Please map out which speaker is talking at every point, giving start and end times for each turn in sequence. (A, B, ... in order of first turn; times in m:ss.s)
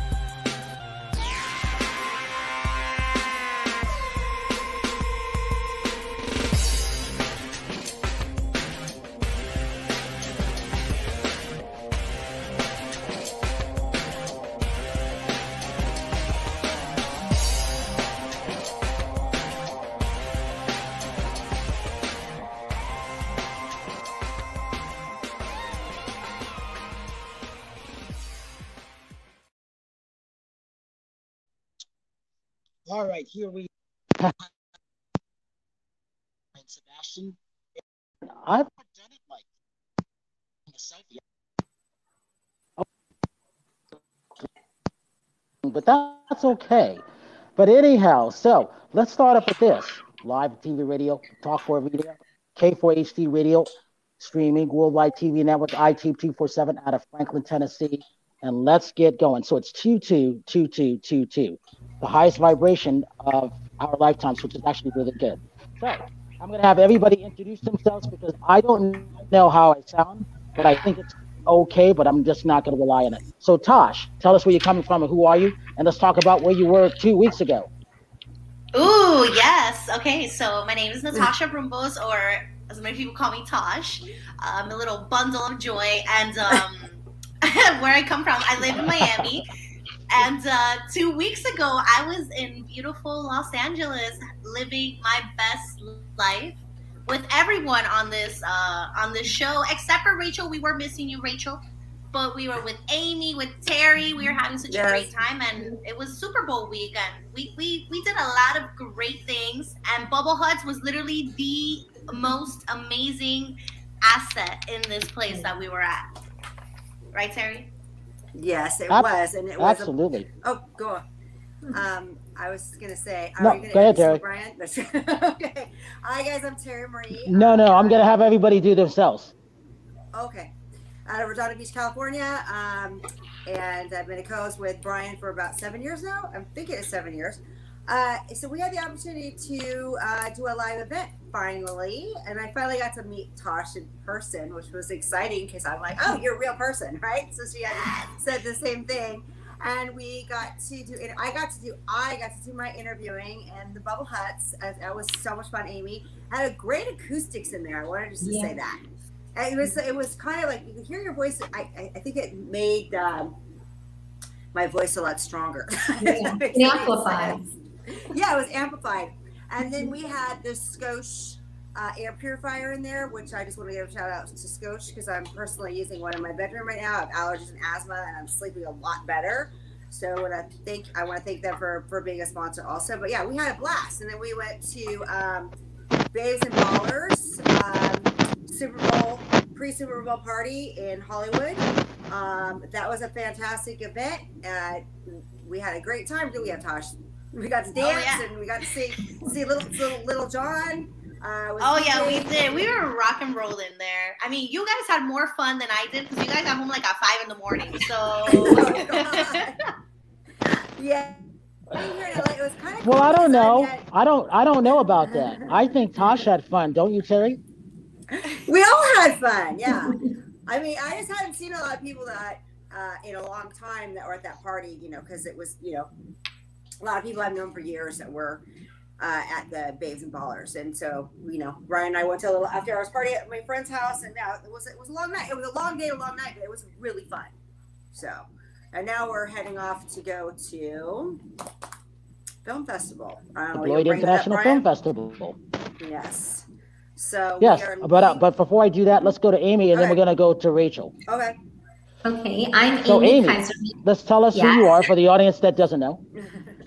0:32.8-0:34.5 A
0:36.6-0:39.4 A
0:40.7-0:41.2 A
0:45.6-0:47.0 A
0:47.6-1:17.7 A
1:18.8-1:29.4 B
1:30.1-1:56.0 B
1:44.7-1:45.1 C
1:57.1-1:57.7 B
1:58.4-2:01.0 C
1:58.9-2:00.2 A
2:01.7-2:08.3 C
2:03.4-2:04.2 A
2:07.2-2:09.3 A
2:10.1-2:10.5 C
2:11.1-2:38.8 C
2:38.2-2:38.6 D
2:39.3-2:43.3 C
2:44.5-3:05.5 C
2:46.0-2:47.4 D
3:06.1-3:22.6 C
3:17.8-3:18.2 B
3:21.6-3:29.4 B
3:28.2-3:29.6 C
3:30.8-3:31.2 C
3:31.7-3:33.8 C
3:32.8-3:37.4 A
3:38.1-3:45.9 C
3:46.8-3:48.4 C
3:49.0-3:57.3 C
3:57.9-4:01.2 C
4:02.4-4:04.6 C
4:03.5-4:05.4 A
4:05.8-4:06.4 C
4:07.0-4:08.2 C
4:07.4-4:10.9 A
4:11.1-4:11.4 C
4:12.0-4:13.8 D
4:12.8-4:16.0 A
4:14.3-4:14.8 D
4:16.2-4:16.6 C